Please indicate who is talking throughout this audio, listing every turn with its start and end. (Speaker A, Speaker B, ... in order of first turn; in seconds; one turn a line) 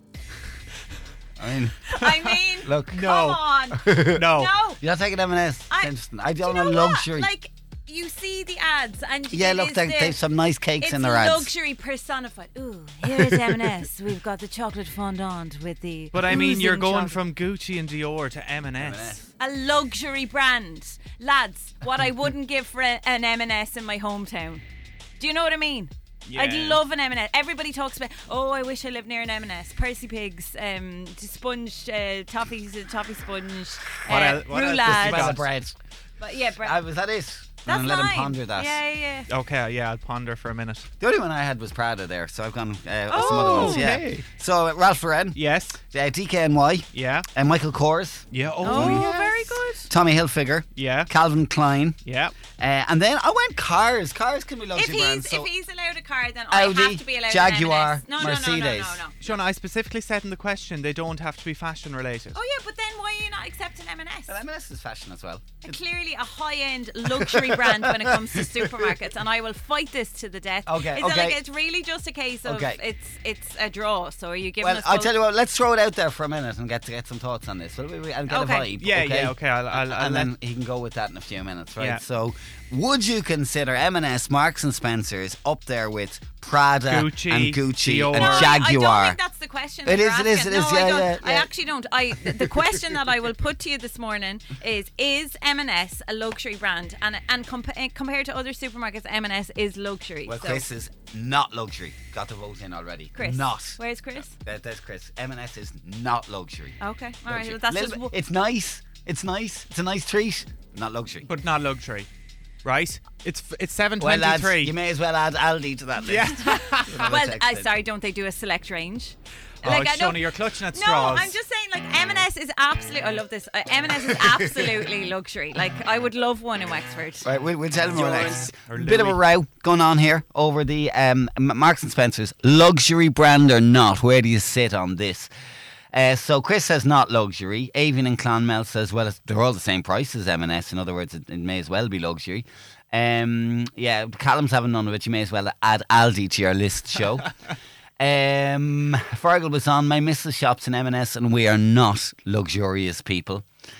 Speaker A: 1.4-1.8
Speaker B: 1.9-4.8
Speaker A: 2.6-3.1
Speaker C: 2.9-3.4
Speaker A: 3.8-4.2
Speaker C: 4.0-4.5
Speaker A: 4.8-7.3
Speaker B: 5.7-10.2
Speaker A: 9.3-11.5
Speaker B: 10.8-17.2
Speaker A: 13.1-13.5
Speaker C: 16.1-19.2
Speaker A: 18.8-19.3
Speaker B: 19.4-24.6
Speaker B: 25.2-35.4
Speaker C: 26.3-26.8
Speaker C: 34.1-35.5
Speaker A: 34.8-35.8
Speaker B: 36.2-36.8
Speaker A: 36.6-38.8
Speaker B: 37.7-39.3
Speaker C: 39.3-40.9
Speaker A: 41.0-49.1
Speaker B: 43.1-43.9
Speaker C: 43.1-44.3
Speaker C: 45.4-45.8
Speaker C: 46.9-47.3
Speaker C: 48.3-49.6
Speaker B: 48.6-49.9
Speaker A: 49.9-52.0
Speaker C: 50.8-51.1
Speaker C: 52.0-52.4
Speaker A: 52.6-55.5
Speaker B: 54.8-59.2
Speaker A: 56.5-59.0
Speaker C: 59.2-62.4
Speaker B: 62.4-64.3
Speaker A: 64.3-65.8
Speaker B: 65.6-75.1
Speaker A: 67.2-69.0
Speaker A: 70.7-71.4
Speaker A: 72.5-72.8
Speaker A: 74.6-89.2
Speaker B: 78.3-78.7
Speaker C: 78.8-80.3
Speaker C: 86.9-88.6
Speaker B: 88.2-100.7
Speaker A: 89.8-91.5
Speaker A: 92.3-92.5
Speaker A: 100.3-111.3
Speaker B: 103.2-104.4
Speaker B: 106.8-108.2
Speaker C: 111.3-112.1
Speaker C: 112.6-114.7
Speaker A: 114.0-117.7
Speaker C: 116.0-117.1
Speaker B: 116.4-120.2
Speaker C: 119.6-121.4
Speaker B: 120.7-127.3
Speaker A: 127.2-135.3
Speaker C: 128.0-129.2
Speaker A: 135.9-147.3
Speaker A: 148.0-153.5